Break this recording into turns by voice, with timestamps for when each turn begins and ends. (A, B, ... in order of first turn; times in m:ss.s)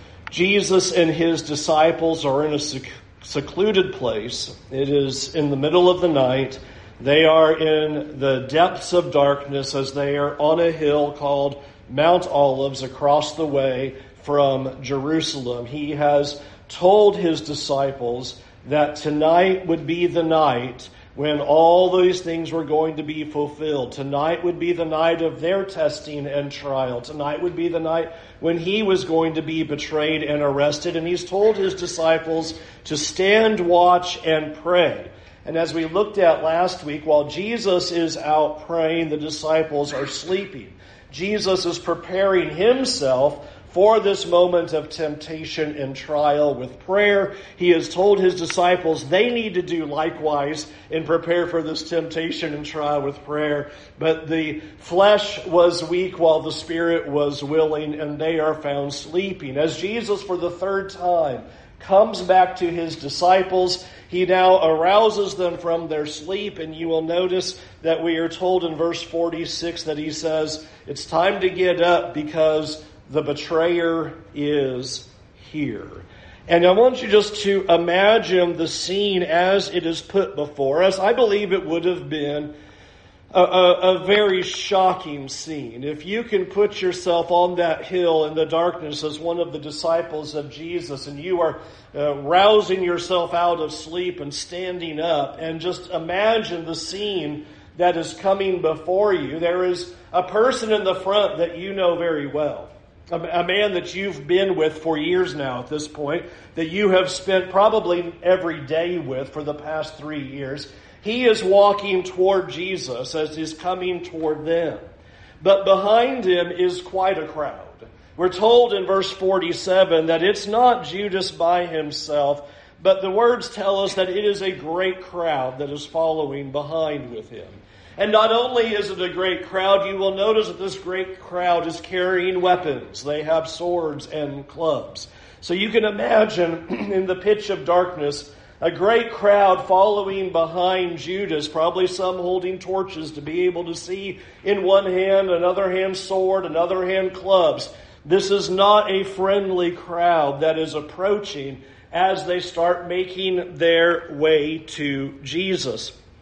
0:00.3-1:22.5 A
1:23.3-1:54.8 A
1:55.4-2:35.9 A